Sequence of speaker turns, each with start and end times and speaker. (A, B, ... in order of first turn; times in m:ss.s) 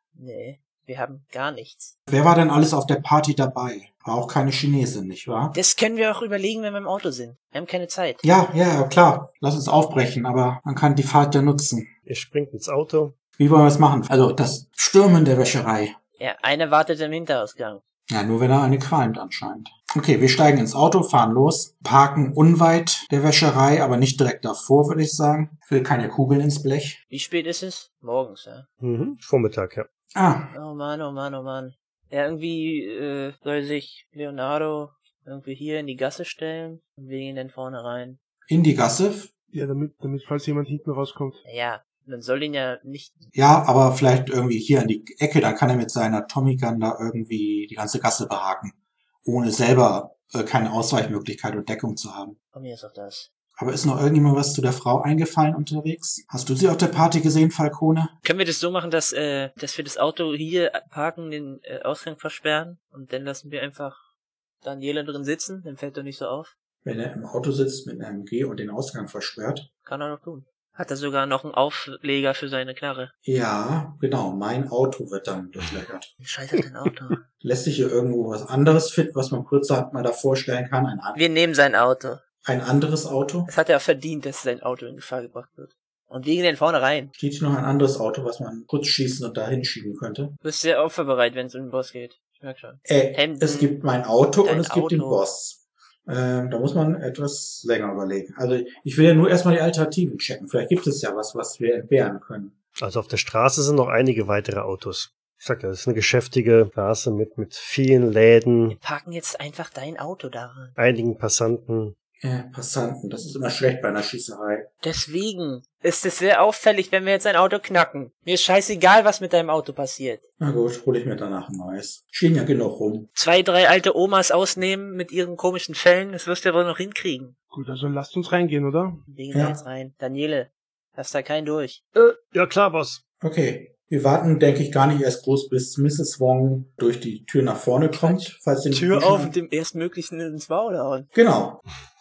0:00.2-0:01.9 A
0:02.1-0:05.6 B
0:05.5-0:08.2 A
0:08.2-0:11.9 B
0:12.1-0:13.2 C
0:13.4-0:16.0 B
0:16.2-0:17.8 A
0:18.1-0:27.0 B
0:27.1-0:28.7 A
0:28.8-0:29.9 C
0:30.1-0:30.5 B
0:30.5-0:38.2 A
0:38.5-0:39.3 B
0:39.5-0:41.4 D
0:41.5-0:43.3 A
0:43.3-0:52.4 B
0:52.5-0:53.3 A
0:53.6-0:58.2 B
0:58.2-1:04.0 A
1:04.6-1:06.5 A
1:06.8-1:09.7 B
1:09.9-1:13.1 A
1:13.2-1:16.1 B
1:16.2-1:17.2 A
1:17.4-1:21.2 B
1:21.2-1:22.2 A
1:22.4-1:23.5 B
1:23.5-1:27.1 A
1:27.2-1:30.4 B
1:30.4-1:33.8 A
1:32.9-1:42.6 B
1:34.4-1:35.2 A
1:42.8-1:48.8 C
1:48.7-1:50.8 A
1:50.8-1:51.9 C
1:52.2-1:54.7 B
1:54.8-2:00.2 A
2:00.4-2:03.1 B
2:03.2-2:07.3 A
2:07.5-2:09.0 D
2:09.1-2:11.8 A
2:09.3-2:09.6 B
2:12.0-2:13.0 C
2:13.2-2:19.3 B
2:17.9-2:21.1 A
2:21.1-2:21.6 B